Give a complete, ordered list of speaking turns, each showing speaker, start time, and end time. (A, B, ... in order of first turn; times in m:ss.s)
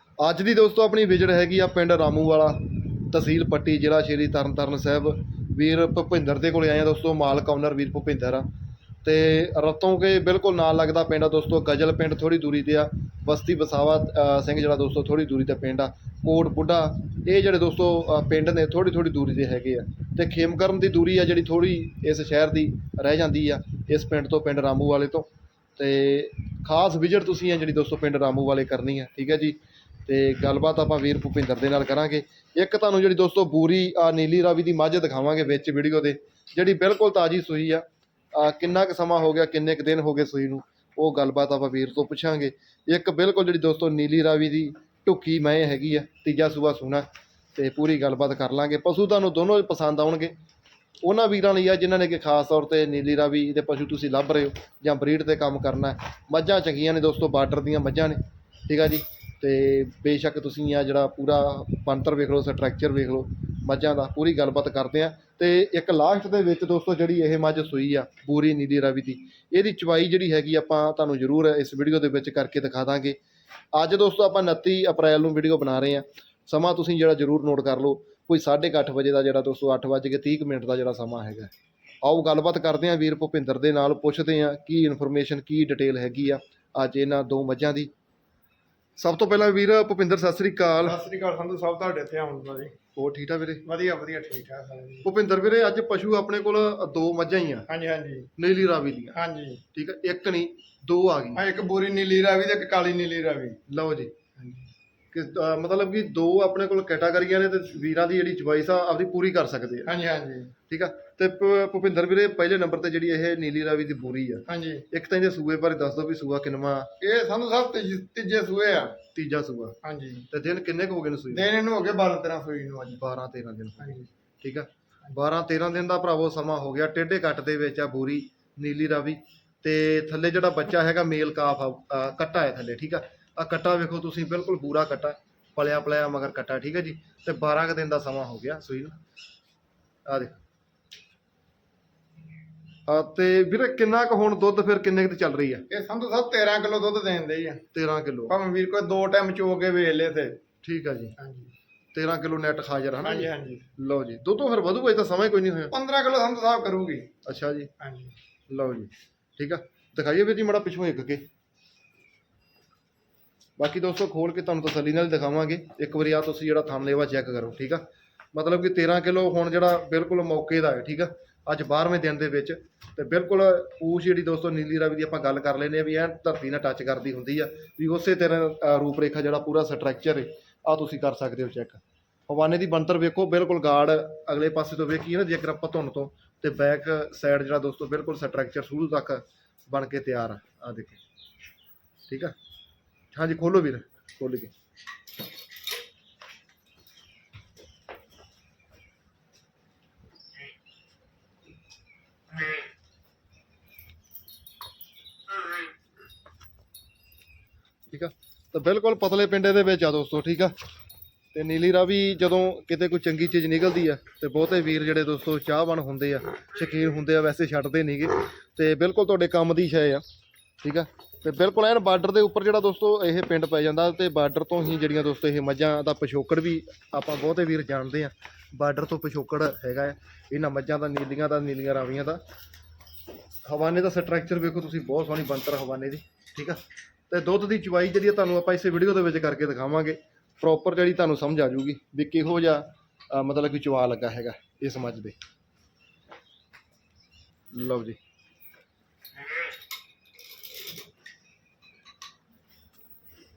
0:00.2-0:08.5 A
0:09.0-0:50.4 A
0:51.0-1:13.2 A
1:13.7-1:21.5 A
1:22.0-1:27.9 A
1:29.0-1:31.0 A
1:30.8-1:32.7 B
1:32.9-1:33.6 A
1:33.6-1:35.0 B
1:35.0-1:37.7 A
1:37.7-1:38.3 B
1:38.4-1:39.2 A
1:39.1-1:39.6 B
1:39.7-1:41.4 A
1:41.3-1:43.6 B
1:43.7-1:44.1 A
1:44.4-1:44.7 B
1:45.1-1:49.9 A
1:49.8-1:50.5 B
1:50.7-1:56.9 A
1:54.5-1:54.8 B
1:57.0-1:59.0 B
1:59.1-1:59.8 A
1:59.8-2:00.3 B
2:00.3-2:01.5 A
2:01.3-2:03.0 B
2:02.9-2:19.0 A
2:03.8-2:04.1 B
2:20.0-2:20.4 A
2:22.9-2:25.6 A
2:25.7-2:27.6 B
2:27.7-2:28.4 A
2:28.3-2:30.4 B
2:30.6-2:31.1 A
2:31.2-2:31.5 B
2:31.9-2:35.7 A
2:33.0-2:33.6 B
2:35.7-2:37.1 B
2:37.2-2:37.7 A
2:37.8-2:38.1 B
2:38.5-2:41.2 A
2:43.6-3:11.0 A
3:12.1-3:12.3 A
3:13.1-3:14.5 A
3:27.9-3:30.5 A
3:31.3-3:40.0 A
3:40.6-3:52.2 A
3:53.4-4:05.1 A
4:07.5-4:08.0 A